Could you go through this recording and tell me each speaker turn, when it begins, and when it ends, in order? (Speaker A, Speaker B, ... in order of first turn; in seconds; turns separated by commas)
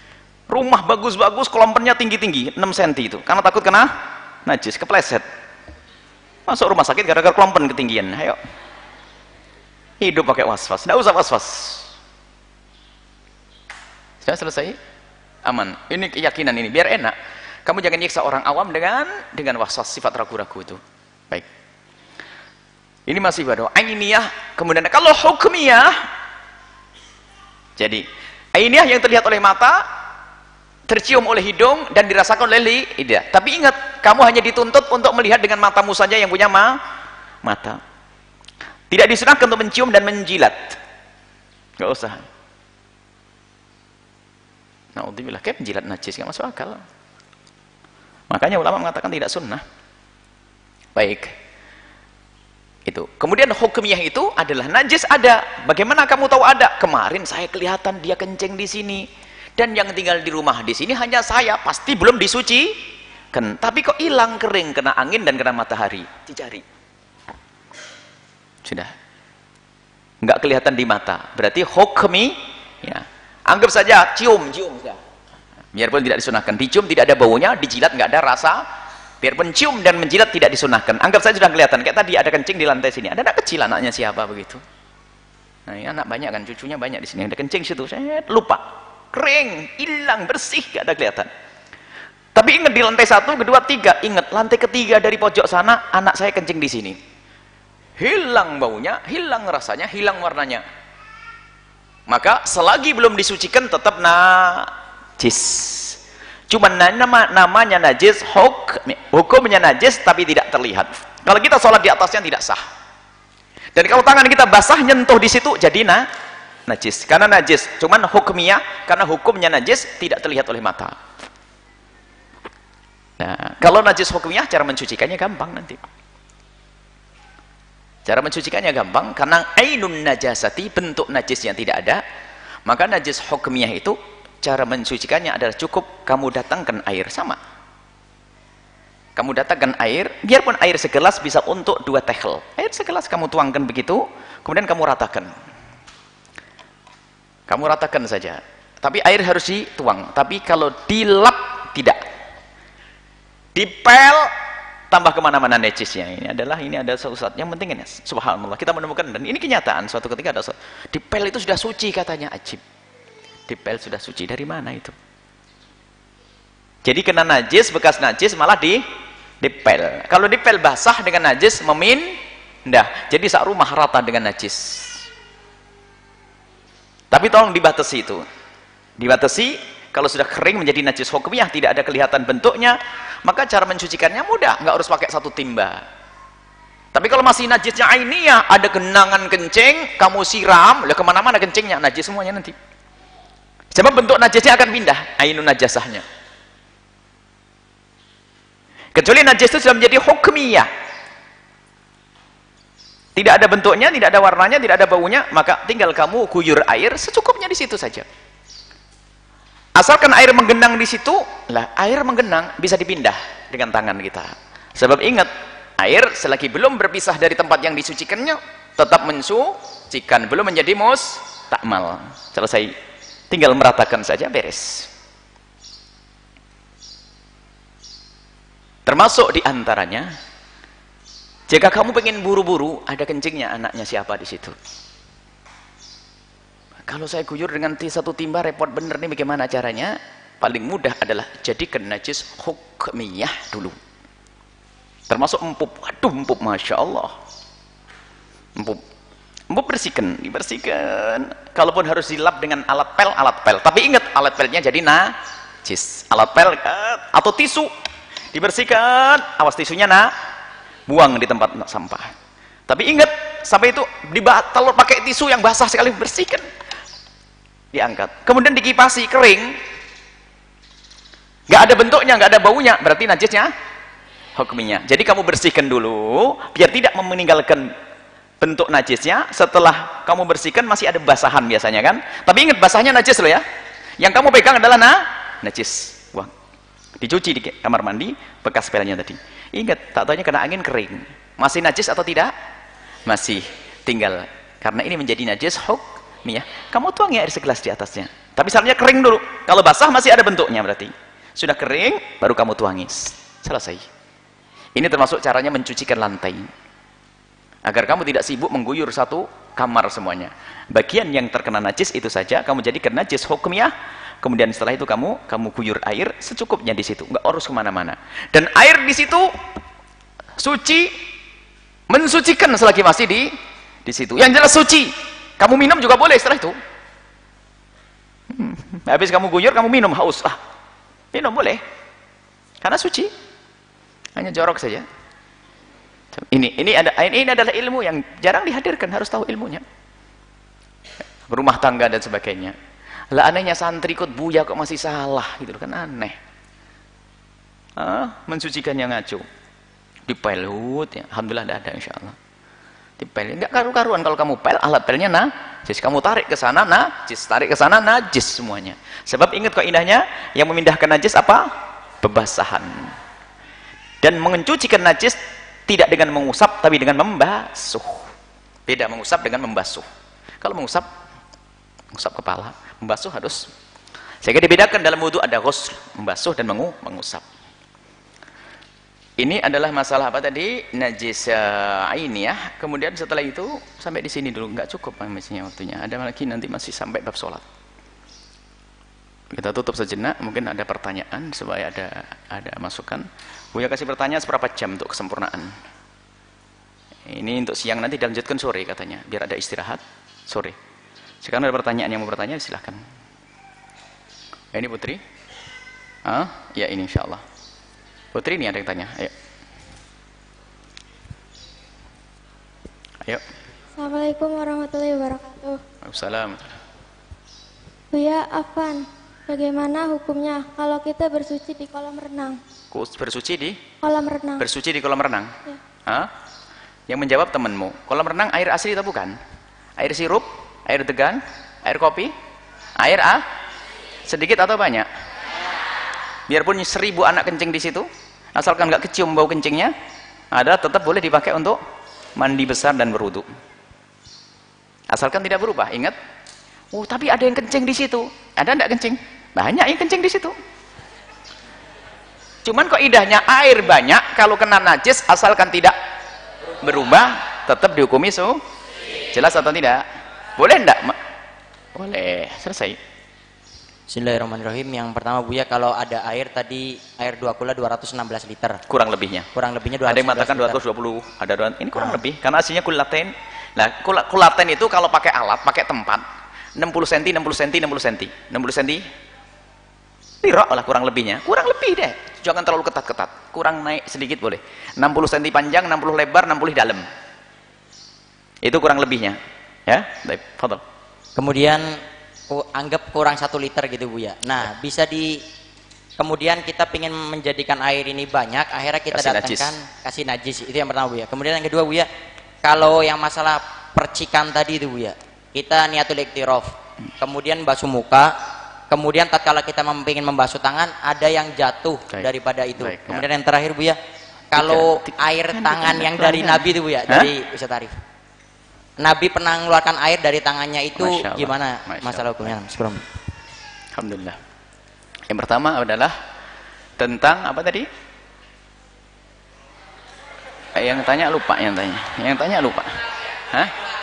Speaker A: 0.5-3.9, Speaker A: 4.5-5.2, Speaker A: 6.5-8.4, Speaker A: 10.0-11.9, Speaker A: 14.2-14.8, Speaker A: 15.4-17.1, Speaker A: 17.7-20.8, Speaker A: 23.1-26.1, Speaker A: 27.8-29.9, Speaker A: 30.9-36.8, Speaker A: 37.5-37.8, Speaker A: 38.9-40.8, Speaker A: 41.8-42.2, Speaker A: 45.0-46.8, Speaker A: 48.3-49.6, Speaker A: 51.0-51.3, Speaker A: 52.9-59.1, Speaker A: 59.6-62.7, Speaker A: 63.3-66.6, Speaker A: 68.7-68.9, Speaker A: 70.2-75.0, Speaker A: 75.7-78.6, Speaker A: 79.2-84.6, Speaker A: 85.7-91.3, Speaker A: 92.3-97.0, Speaker A: 98.0-100.6, Speaker A: 102.1-112.6, Speaker A: 113.8-116.0, Speaker A: 116.7-121.0, Speaker A: 123.2-125.8, Speaker A: 128.1-132.0, Speaker A: 132.7-137.4, Speaker A: 139.2-145.3, Speaker A: 147.5-152.0, Speaker A: 153.6-154.3, Speaker A: 154.9-162.6, Speaker A: 163.5-164.9, Speaker A: 166.8-168.8, Speaker A: 169.4-172.2, Speaker A: 172.7-175.0, Speaker A: 177.1-178.2, Speaker A: 179.0-185.8, Speaker A: 186.9-192.6, Speaker A: 193.7-196.0, Speaker A: 198.9-200.7, Speaker A: 203.2-208.1, Speaker A: 209.8-222.7, Speaker A: 223.3-224.9, Speaker A: 228.9-230.1, Speaker A: 231.5-234.6, Speaker A: 236.9-243.8, Speaker A: 245.1-247.2, Speaker A: 248.6-248.8, Speaker A: 249.5-257.7, Speaker A: 258.3-260.1, Speaker A: 260.9-262.1, Speaker A: 262.7-266.5, Speaker A: 267.7-269.6, Speaker A: 271.5-273.5, Speaker A: 274.4-277.7, Speaker A: 278.4-283.4, Speaker A: 284.0-286.3, Speaker A: 287.0-292.3, Speaker A: 293.1-303.9, Speaker A: 304.8-306.5, Speaker A: 307.7-319.3, Speaker A: 320.4-320.9, Speaker A: 321.9-323.3, Speaker A: 323.9-326.6, Speaker A: 328.3-330.4, Speaker A: 331.1-331.6, Speaker A: 332.6-333.1, Speaker A: 334.2-334.9, Speaker A: 336.1-339.6, Speaker A: 341.3-342.6, Speaker A: 343.1-346.2, Speaker A: 347.8-349.2, Speaker A: 350.1-352.2, Speaker A: 353.0-361.5, Speaker A: 362.0-362.9, Speaker A: 364.0-368.1, Speaker A: 368.7-369.9, Speaker A: 370.4-370.9, Speaker A: 371.9-373.5, Speaker A: 374.2-377.2, Speaker A: 379.2-387.4, Speaker A: 389.3-395.5, Speaker A: 397.1-400.6, Speaker A: 401.2-402.8, Speaker A: 404.5-405.0, Speaker A: 406.1-407.2, Speaker A: 408.1-409.1, Speaker B: 413.8-415.6, Speaker A: 415.8-416.5, Speaker B: 417.9-422.4, Speaker A: 422.7-423.6, Speaker B: 423.8-424.4, Speaker A: 424.4-425.3, Speaker A: 426.9-429.2, Speaker A: 429.8-432.1, Speaker A: 432.8-433.2, Speaker A: 434.1-434.9, Speaker A: 436.3-439.7, Speaker A: 440.3-441.6, Speaker A: 442.2-443.3, Speaker A: 444.9-445.9, Speaker A: 446.7-450.4, Speaker A: 452.4-455.8, Speaker A: 456.6-458.4, Speaker A: 459.1-459.8, Speaker A: 460.4-461.0, Speaker A: 461.8-462.8, Speaker C: 463.9-468.6, Speaker A: 468.7-469.3, Speaker C: 469.4-470.6, Speaker A: 469.9-476.0, Speaker A: 476.6-478.9, Speaker A: 480.2-486.9, Speaker A: 488.4-490.6, Speaker C: 491.2-491.8, Speaker C: 492.3-495.2, Speaker C: 496.0-501.9, Speaker A: 498.9-499.6, Speaker C: 502.4-508.1, Speaker C: 508.7-513.8, Speaker A: 511.9-513.0, Speaker C: 514.3-517.8, Speaker A: 514.3-517.1, Speaker C: 518.8-522.9, Speaker A: 520.8-522.4, Speaker A: 523.8-524.2, Speaker A: 525.1-526.0, Speaker A: 526.8-527.7, Speaker A: 530.6-532.7